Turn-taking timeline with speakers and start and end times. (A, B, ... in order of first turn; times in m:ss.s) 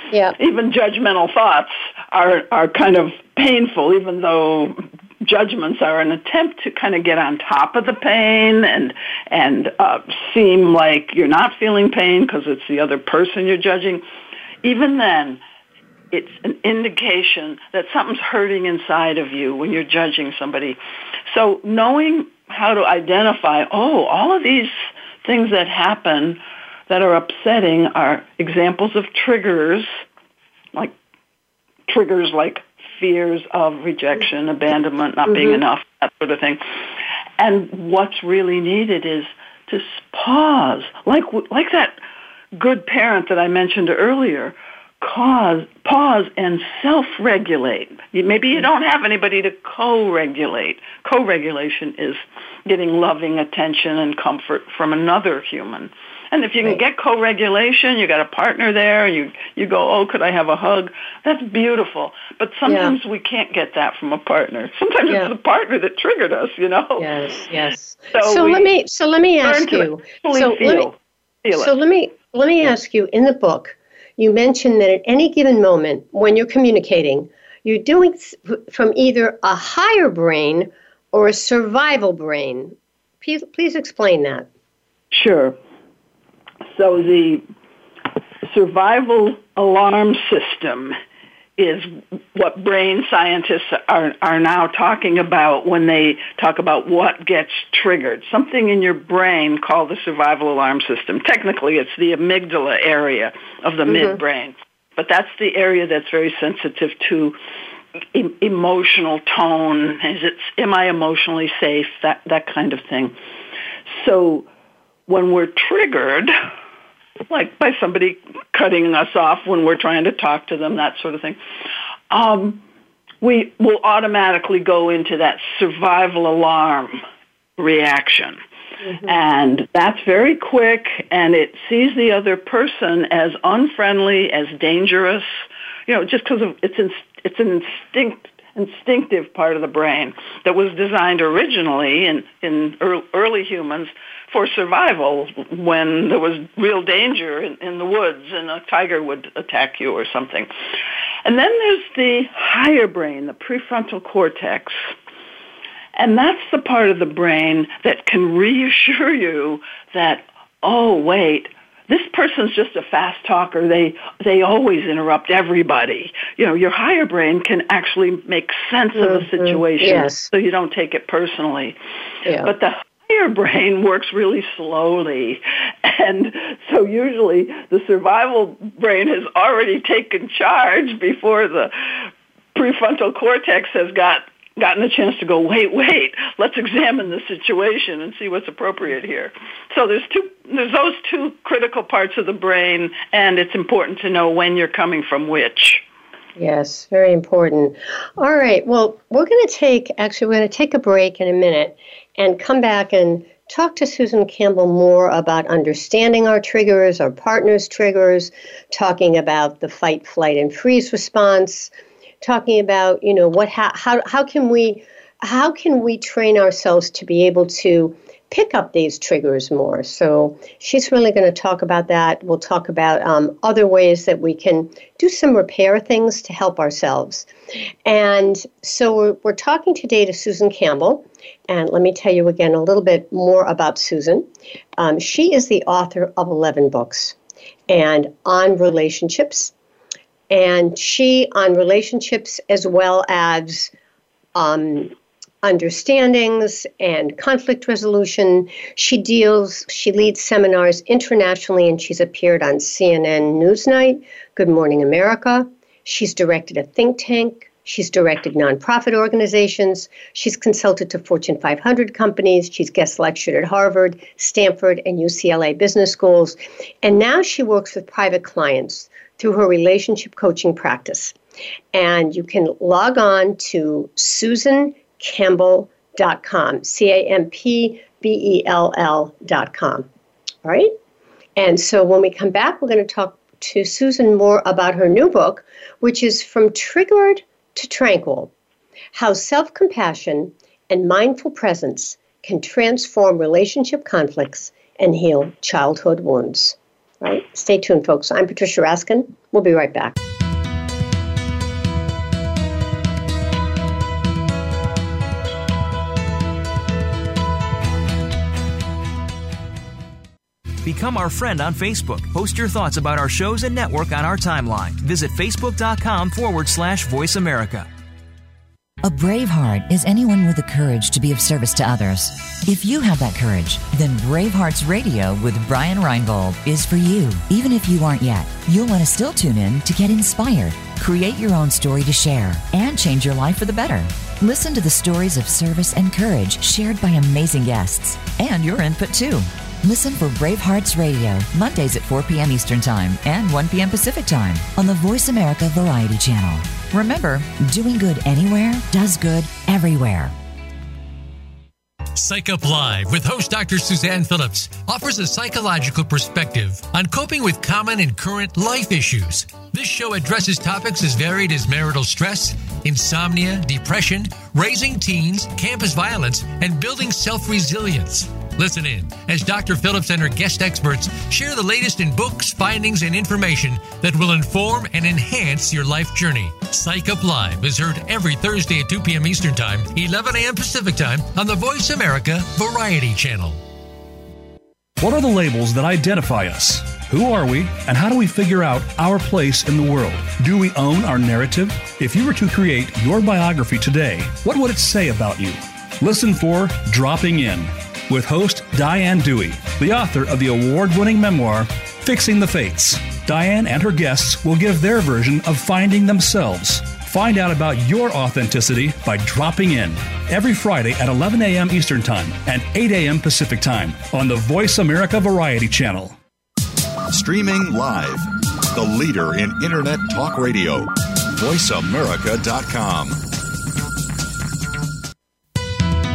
0:00.4-0:14.0 A
0:14.6-0:15.4 A
0:16.1-0:30.0 A
0:31.9-0:36.6 A
0:35.3-0:35.6 B
0:37.4-0:42.0 A
0:42.5-1:07.1 A
1:02.6-1:02.9 B
1:07.0-1:10.9 B
1:08.1-1:08.7 A
1:09.4-1:11.7 A
1:11.5-1:24.5 B
1:25.1-1:25.6 A
1:26.7-1:27.4 A
1:28.5-1:30.9 A
1:31.6-1:47.4 A
1:43.9-1:44.2 B
1:48.1-1:53.2 A
1:53.9-1:54.5 A
1:55.1-1:56.3 A
1:57.3-2:01.4 A
2:02.1-2:02.6 A
2:03.2-2:07.0 A
2:07.6-2:08.4 A
2:08.8-2:09.2 B
2:09.0-2:30.5 A
2:31.2-2:34.8 A
2:36.0-2:51.8 A
2:48.9-2:50.3 B
2:52.2-2:52.5 B
2:52.4-3:15.8 A
3:16.4-3:31.7 B
3:32.2-3:47.3 B
3:47.8-3:57.2 B
3:57.7-3:59.5 B
4:00.3-4:03.7 B
4:04.3-4:31.2 B
4:31.7-4:39.9 B
4:40.4-4:40.7 B
4:41.4-4:48.3 B
4:48.9-5:00.0 B
5:10.6-5:17.7 C
5:18.8-5:50.1 D
5:51.9-6:23.4 E
6:24.8-6:56.0 F
6:56.9-7:03.0 G